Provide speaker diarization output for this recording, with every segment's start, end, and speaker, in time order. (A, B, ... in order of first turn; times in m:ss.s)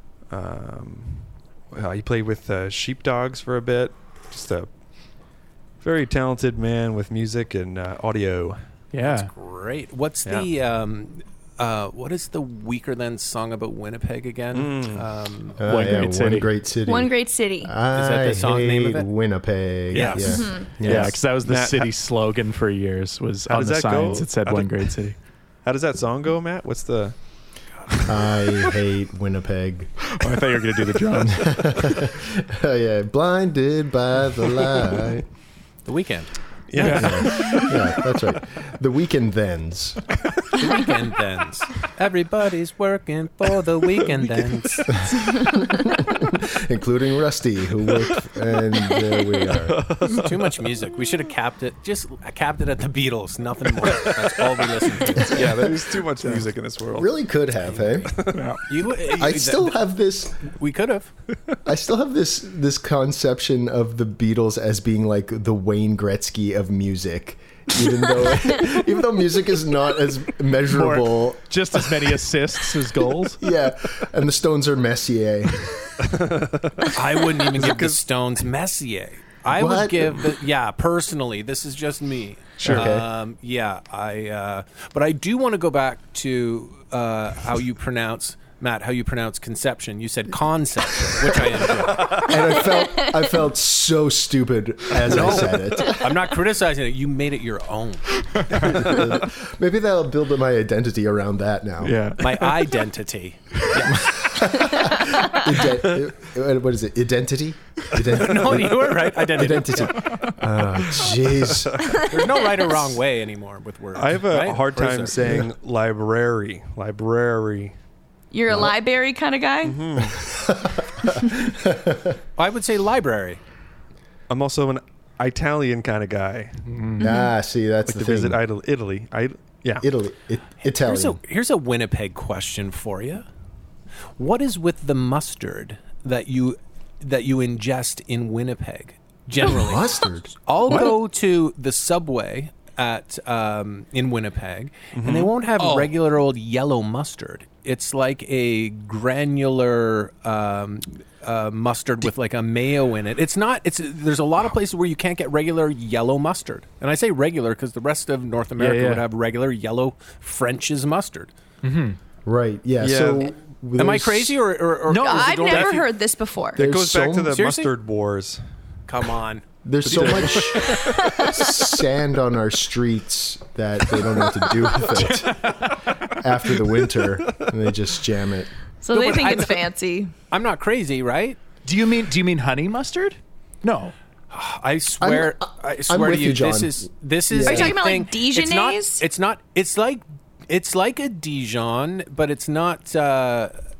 0:00.3-0:04.7 A
0:05.8-0:08.6 A
0:08.9-0:09.3 B
0:09.0-0:15.6 C
0:14.6-0:15.0 A
0:15.6-0:21.2 D
0:15.6-0:16.5 B
0:16.9-0:17.7 E
0:17.9-0:19.1 C
0:19.9-0:20.6 C
0:20.3-0:20.8 E
0:20.8-0:25.2 B
0:20.9-0:21.9 A
0:23.5-0:25.0 A
0:25.6-0:27.2 A
0:28.1-0:29.9 D
0:30.1-0:32.1 B
0:31.2-0:35.3 D
0:35.9-0:36.3 C
0:36.7-0:37.7 A
0:36.8-0:37.8 B
0:36.9-0:40.0 D
0:40.5-0:45.0 C
0:44.9-0:49.8 D
0:49.7-0:50.5 A
0:50.0-0:55.7 C
0:53.9-0:57.2 A
0:55.2-0:55.6 D
0:57.0-0:58.2 D
0:58.1-0:58.5 A
0:58.3-0:58.6 B
0:58.7-0:59.8 C
0:59.1-1:00.5 D
1:00.4-1:01.1 C
1:01.6-1:12.0 D
1:10.7-1:13.4 B
1:13.4-1:15.8 D
1:16.0-1:18.0 A
1:16.9-1:32.4 C
1:19.5-1:20.2 D
1:22.6-1:22.9 A
1:22.7-1:23.1 D
1:32.0-1:32.3 A
1:32.2-1:36.2 D
1:32.8-1:33.2 E
1:35.0-1:38.3 C
1:35.1-1:35.4 A
1:38.3-1:38.8 B
1:38.6-1:42.1 D
1:38.7-1:39.0 A
1:41.8-1:42.6 B
1:42.2-1:44.1 C
1:43.9-1:52.0 D
1:48.2-1:50.1 C
1:51.6-1:52.0 A
1:51.9-1:55.2 C
1:54.0-1:57.7 A
1:58.3-1:59.8 E
1:59.6-2:00.2 A
2:00.2-2:02.2 D
2:02.4-2:03.4 C
2:04.3-2:06.6 A
2:06.7-2:07.0 B
2:07.0-2:08.4 D
2:07.0-2:07.3 E
2:07.9-2:09.9 A
2:09.8-2:11.2 D
2:10.6-2:13.3 C
2:14.2-2:41.3 C
2:19.4-2:20.4 D
2:20.7-2:21.0 B
2:24.9-2:25.3 A
2:25.6-2:25.9 B
2:38.6-2:39.1 B
2:41.6-2:42.0 B
2:42.3-2:44.4 D
2:42.8-2:43.3 A
2:43.8-2:45.9 C
2:44.9-2:45.8 B
2:45.0-2:46.6 E
2:46.6-2:47.4 D
2:46.6-2:48.4 A
2:47.3-2:47.7 C
2:48.9-2:50.8 C
2:49.6-2:55.6 D
2:49.9-2:50.4 B
2:50.7-2:51.4 E
2:54.4-2:54.9 E
2:56.1-2:58.5 D
2:58.8-3:00.1 E
2:58.9-2:59.7 C
3:00.3-3:01.4 C
3:01.6-3:03.9 B
3:04.3-3:13.6 C
3:05.0-3:07.8 D
3:07.5-3:09.0 E